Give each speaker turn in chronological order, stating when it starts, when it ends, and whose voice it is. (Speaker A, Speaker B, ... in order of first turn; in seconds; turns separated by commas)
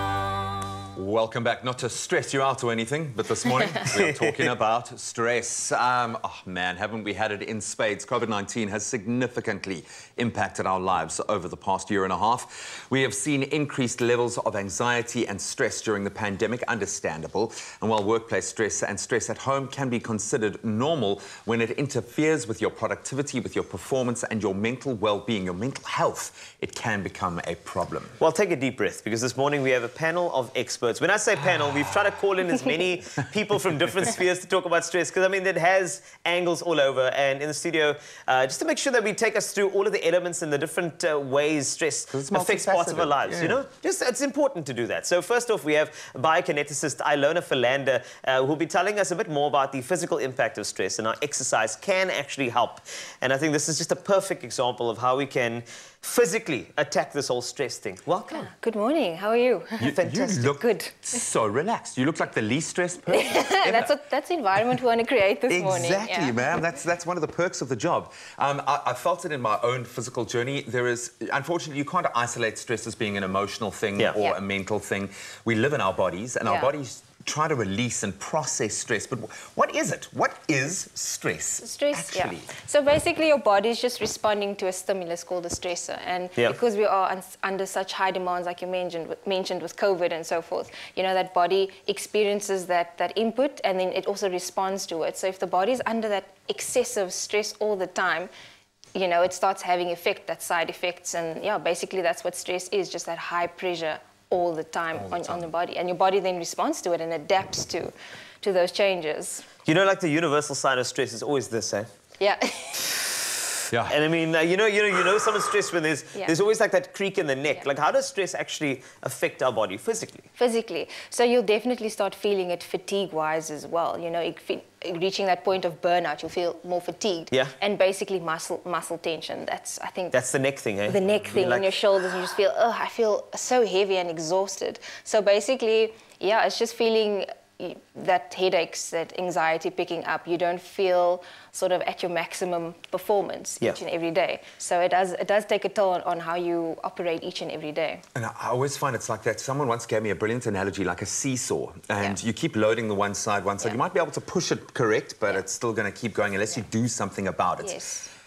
Speaker A: 0.9-28.1, Speaker B: 3.8-4.5, Speaker B: 28.2-58.5, Speaker A: 42.1-43.6, Speaker C: 58.3-59.9, Speaker A: 59.8-63.9, Speaker B: 59.9-60.5, Speaker C: 60.5-61.0, Speaker C: 63.1-66.3, Speaker A: 65.5-82.5, Speaker C: 76.5-76.7, Speaker C: 81.6-98.3, Speaker C: 98.9-109.5, Speaker A: 104.9-105.4, Speaker B: 109.7-111.9, Speaker C: 112.2-112.9, Speaker A: 113.7-114.0, Speaker B: 113.9-120.3, Speaker C: 120.3-130.2, Speaker B: 130.1-131.7, Speaker C: 130.9-148.0, Speaker A: 148.1-157.8, Speaker C: 157.6-158.1